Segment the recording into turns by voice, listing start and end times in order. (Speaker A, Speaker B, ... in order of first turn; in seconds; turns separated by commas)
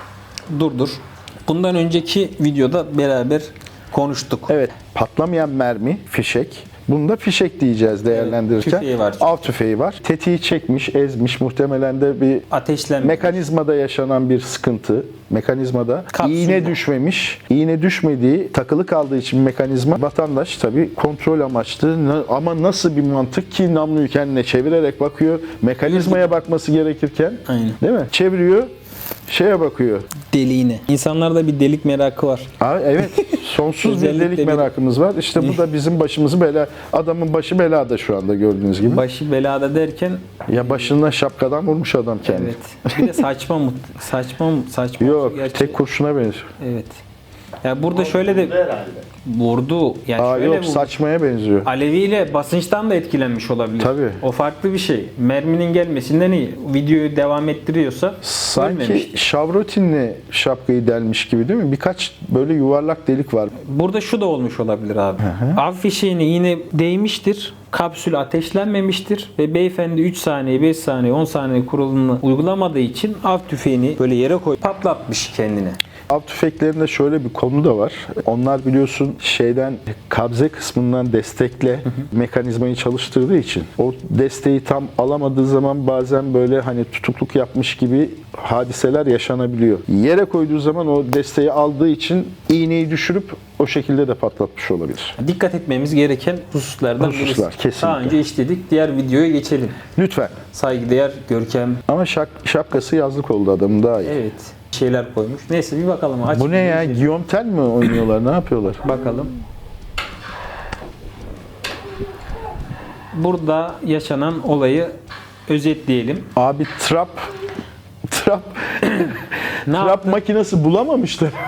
Speaker A: 0.5-4.5, Speaker B: 4.5-12.5, Speaker A: 8.1-9.5, Speaker A: 12.5-13.4, Speaker B: 13.0-28.7, Speaker A: 16.1-16.8, Speaker A: 25.9-26.2, Speaker A: 27.5-27.8, Speaker B: 29.3-30.1, Speaker A: 30.3-32.5, Speaker B: 32.6-39.0, Speaker A: 33.0-34.7, Speaker A: 35.4-35.6, Speaker A: 38.8-40.9, Speaker B: 40.5-43.1, Speaker A: 42.2-45.8, Speaker B: 45.0-46.5, Speaker A: 46.6-47.0, Speaker A: 47.6-50.9, Speaker B: 50.2-51.7, Speaker A: 51.6-59.2, Speaker B: 53.8-54.2, Speaker B: 58.2-63.5, Speaker A: 63.6-75.8, Speaker B: 65.2-65.6, Speaker B: 76.1-95.2, Speaker A: 95.2-99.8, Speaker B: 97.0-98.2, Speaker B: 100.0-100.4, Speaker A: 100.5-101.8, Speaker B: 101.9-104.2, Speaker A: 104.0-107.1, Speaker B: 106.3-108.8, Speaker A: 108.8-109.3, Speaker A: 113.1-114.9, Speaker A: 115.5-116.3, Speaker B: 116.4-117.3, Speaker B: 118.1-121.3, Speaker A: 119.7-120.2